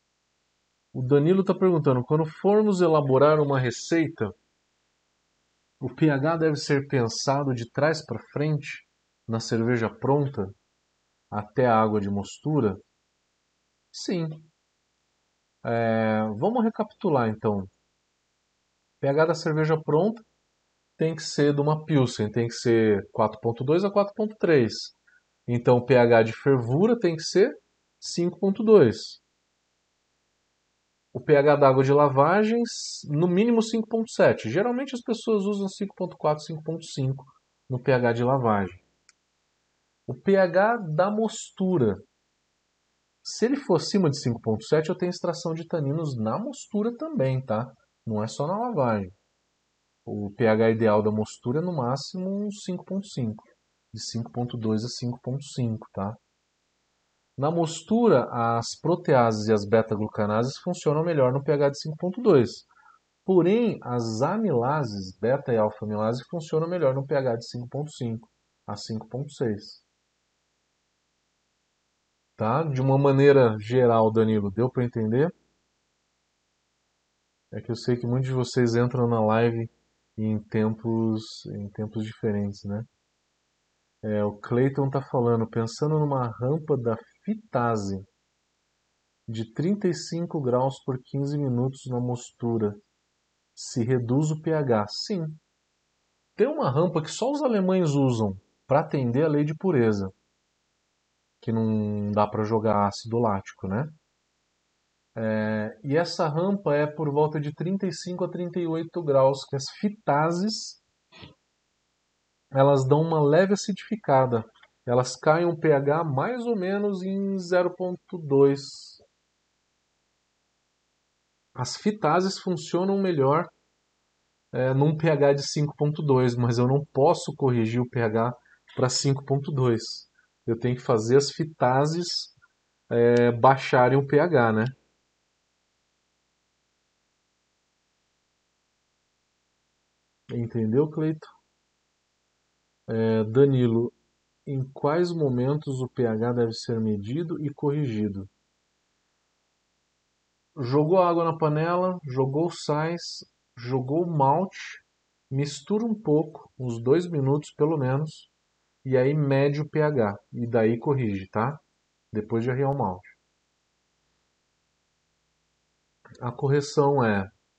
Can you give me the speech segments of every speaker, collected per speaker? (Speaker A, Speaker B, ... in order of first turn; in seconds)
Speaker A: 0.9-4.3, 5.8-10.5, 11.3-12.8, 13.9-14.5, 15.6-17.7, 19.0-20.2, 21.0-24.9, 25.5-29.2, 31.1-38.8, 40.1-42.0, 43.2-49.1, 50.0-56.2, 57.4-62.7, 63.2-69.8, 72.4-75.3, 77.5-82.9, 84.0-88.0, 89.3-92.8, 93.5-95.4, 96.3-100.1, 101.4-103.9, 105.1-110.8, 112.5-119.0, 121.5-123.5, 124.5-132.3, 132.9-134.8, 140.3-141.3, 142.9-143.9, 144.4-148.3, 150.6-158.3, 158.8-161.6, 162.1-163.2, 166.2-167.3